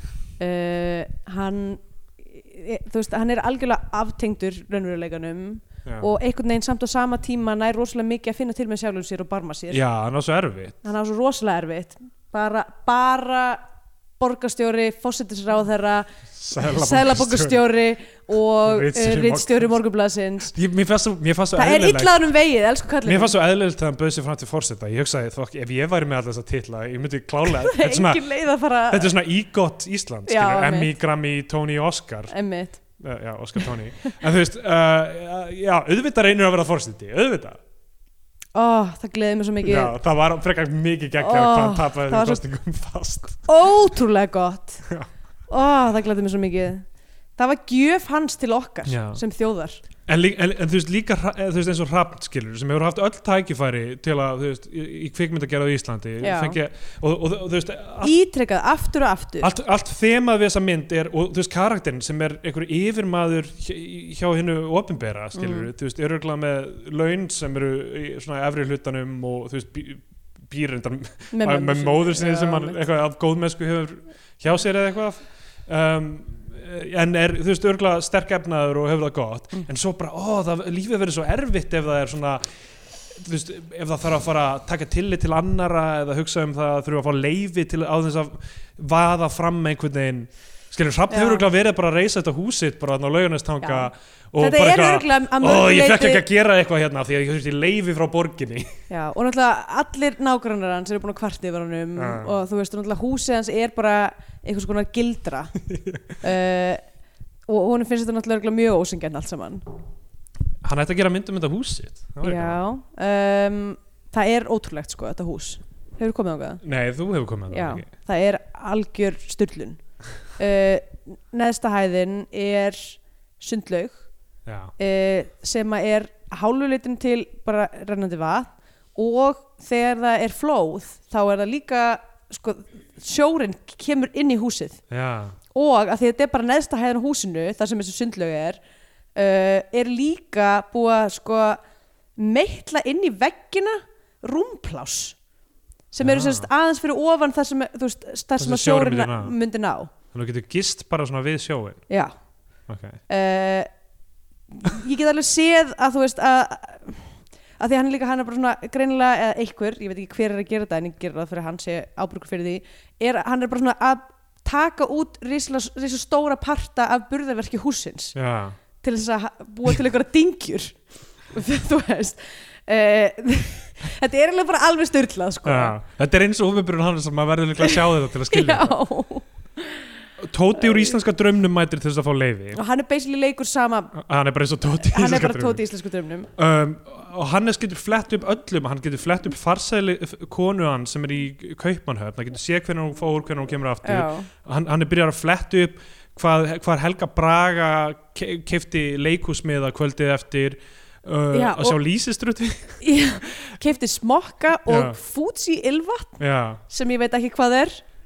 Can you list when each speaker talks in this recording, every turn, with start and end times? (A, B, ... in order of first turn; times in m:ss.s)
0:00.4-0:09.8 A
0:09.7-0:10.8 B
0:10.8-0:13.6 A
0:14.2-0:20.6 A
0:16.4-0:17.6 B
0:18.6-0:19.7 B
0:20.5-0:22.2 B
0:21.6-0:23.3 A
0:23.0-0:28.3 B
0:27.4-0:29.1 A
0:28.9-0:37.6 B
0:30.3-0:30.9 A
0:32.3-0:33.0 A
0:38.6-0:39.9 A
0:39.6-0:43.5 B
0:41.2-0:42.4 A
0:43.4-0:44.9 A
0:45.5-0:49.8 A
0:48.9-0:49.2 B
0:50.1-0:58.1 B
0:56.2-0:56.6 A
0:58.0-0:59.5 A
0:59.4-1:22.5 B
1:05.4-1:05.7 A
1:11.3-1:12.8 A
1:23.1-1:38.7 B
1:31.1-1:31.4 A
1:33.6-1:36.2 A
1:38.9-1:45.5 A
1:42.0-1:42.3 B
1:45.7-1:46.0 B
1:46.2-1:46.9 A
1:47.5-1:49.6 A
1:50.6-1:52.6 B
1:52.2-1:56.6 A
1:56.6-1:57.9 B
1:57.5-2:04.0 A
2:04.5-2:04.7 B
2:04.8-2:14.8 A
2:14.9-2:15.4 B
2:15.5-2:18.6 A
2:19.2-2:21.6 A
2:22.2-2:25.2 A
2:25.9-2:29.9 A
2:26.0-2:26.5 B
2:28.4-2:29.4 B
2:30.1-2:31.8 B
2:31.9-2:32.2 A
2:32.7-2:33.0 B
2:33.1-2:33.7 A
2:34.5-2:48.2 A
2:48.2-2:48.6 B
2:48.8-2:55.8 A
2:55.4-2:58.8 B
2:58.3-2:59.8 A
3:00.2-3:02.6 B
3:02.5-3:04.0 A
3:04.0-3:05.6 B
3:04.8-3:06.3 A
3:06.4-3:22.8 B
3:13.8-3:14.3 A
3:21.3-3:21.8 A
3:22.8-3:27.8 A
3:24.7-3:25.0 B
3:26.2-3:26.6 B